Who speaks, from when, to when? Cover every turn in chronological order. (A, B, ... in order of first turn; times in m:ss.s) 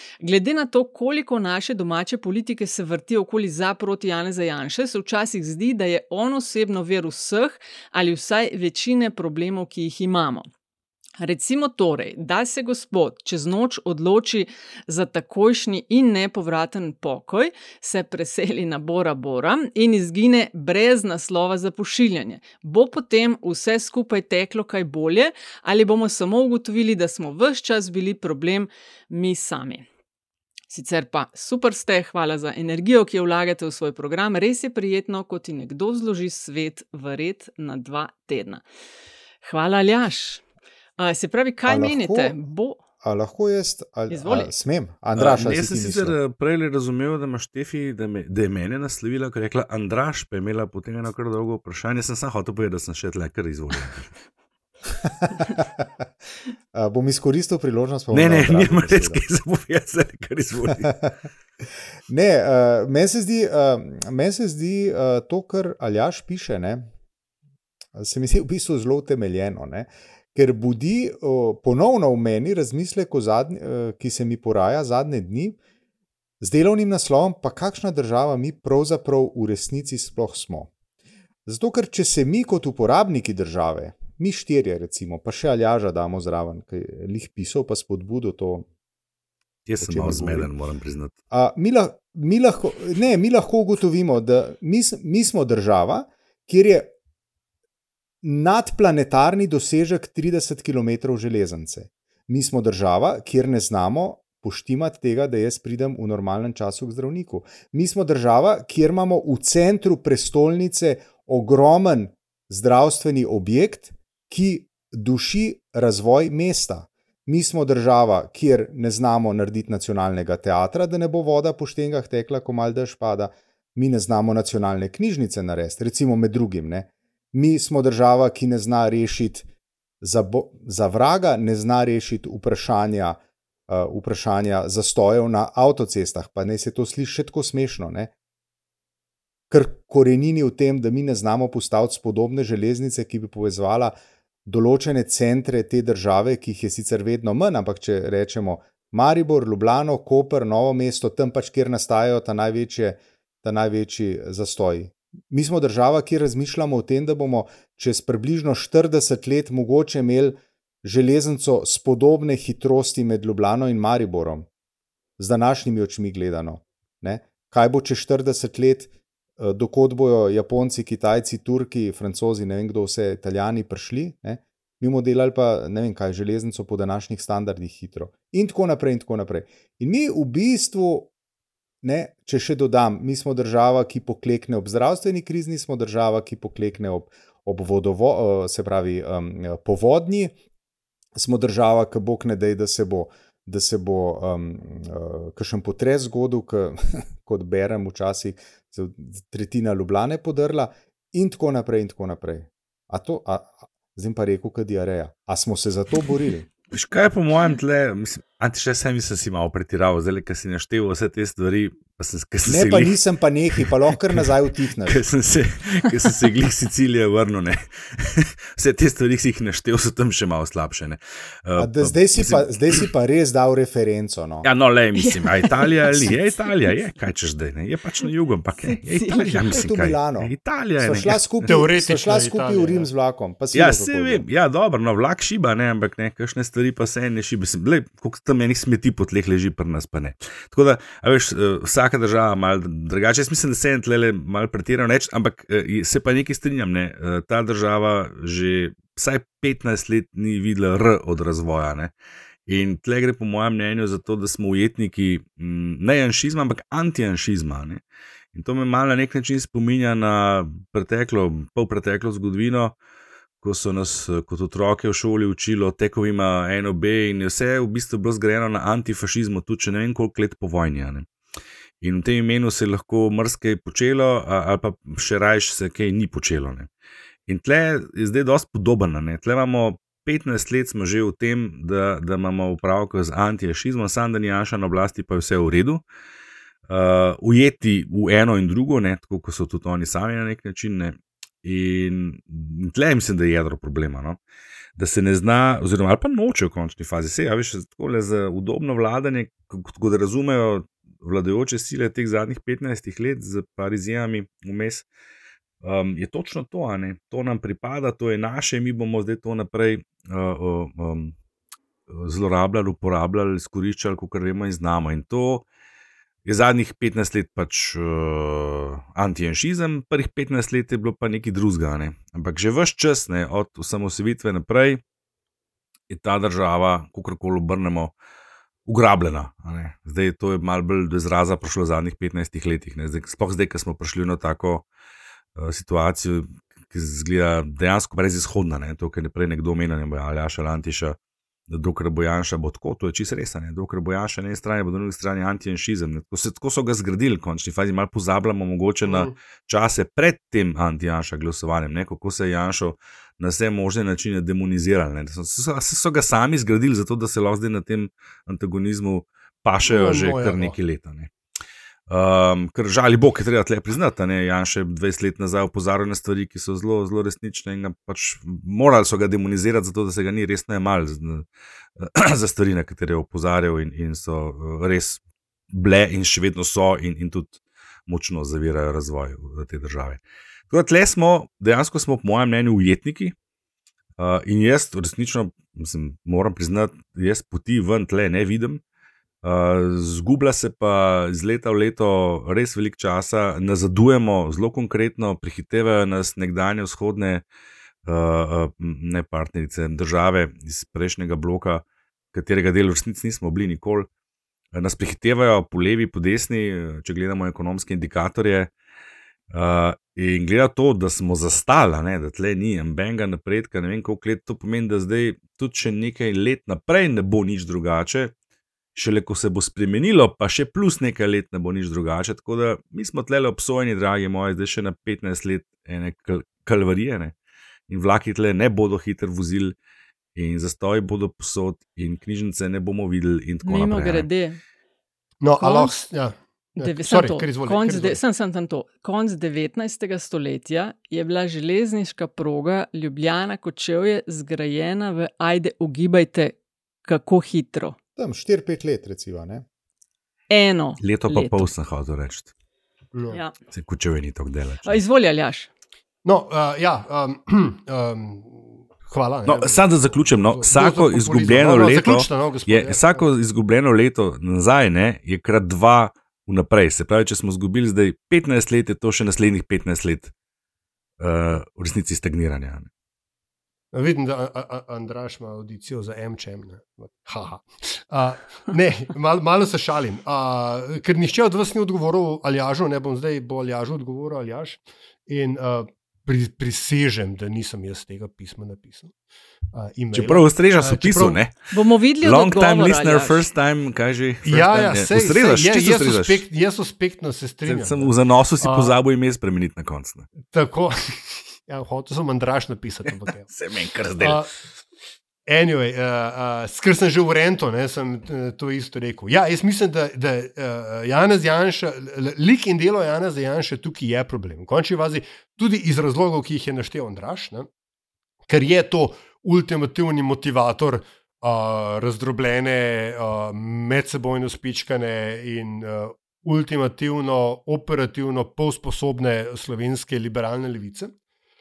0:00.2-0:10.5 A
0:11.2-0:29.8 A
0:30.7-0:38.6 A
0:39.4-0:40.4 A
0:41.0-0:42.8 A
0:41.7-0:42.4 B
0:43.0-0:46.2 B
0:44.1-0:44.5 A
0:45.2-0:54.1 C
0:55.0-0:55.6 B
0:56.7-0:59.2 B
0:58.1-1:00.9 C
1:00.8-1:01.2 B
1:02.1-1:06.9 B
1:08.0-1:15.6 B
1:16.4-1:20.7 B
1:21.5-1:28.7 B
1:29.7-1:31.1 C
1:29.8-1:30.5 B
1:31.3-1:36.9 B
1:38.2-2:09.5 B
2:10.0-2:18.1 B
2:19.5-2:24.0 B
2:24.5-2:44.5 B
2:45.2-3:01.1 B
3:01.8-3:10.3 B
3:11.2-3:26.5 B
3:26.7-3:33.0 C
3:32.5-3:35.0 B
3:33.6-3:34.3 C
3:34.8-3:42.9 C
3:41.6-3:44.5 B
3:44.4-3:51.3 C
3:45.0-3:46.1 A
3:48.7-3:49.4 A
3:49.2-3:54.2 B
3:51.4-3:52.9 D
3:53.5-4:11.9 C
4:12.5-4:17.8 C
4:18.3-4:22.7 C
4:23.4-4:31.1 C
4:31.8-4:36.7 C
4:37.3-4:45.8 C
4:46.7-4:54.2 C
4:54.8-5:04.9 C
5:05.6-5:11.2 C
5:11.9-5:15.4 C
5:16.3-5:24.8 C
5:25.9-5:27.9 C
5:28.7-5:34.6 C
5:35.4-5:41.0 C
5:41.5-6:01.1 C
5:48.8-5:49.1 D
5:59.7-6:00.6 D
6:01.9-6:11.2 C
6:11.8-6:23.1 C
6:24.0-6:28.6 C
6:29.2-6:37.2 C
6:37.8-6:43.9 C
6:44.5-6:48.5 C
6:49.3-6:58.1 C
6:58.8-7:07.1 C
7:07.7-7:09.5 C
7:10.2-7:14.1 C
7:13.4-7:14.4 A
7:15.2-7:18.0 D
7:15.4-7:15.8 A
7:16.6-7:27.8 A
7:28.0-7:29.4 B
7:30.3-7:31.5 A
7:30.8-7:32.3 C
7:33.5-7:34.8 C
7:34.6-7:35.5 A
7:36.0-7:43.0 D
7:39.3-7:50.1 C
7:51.0-7:52.7 C
7:53.7-8:08.9 D
8:09.5-8:11.2 D
8:09.9-8:11.4 C
8:11.5-8:13.2 A
8:12.0-8:16.2 C
8:14.2-8:18.8 D
8:17.4-8:20.1 C
8:20.3-8:23.3 D
8:23.3-8:24.2 C
8:24.0-8:24.3 D
8:25.3-8:37.5 D
8:38.3-8:50.9 D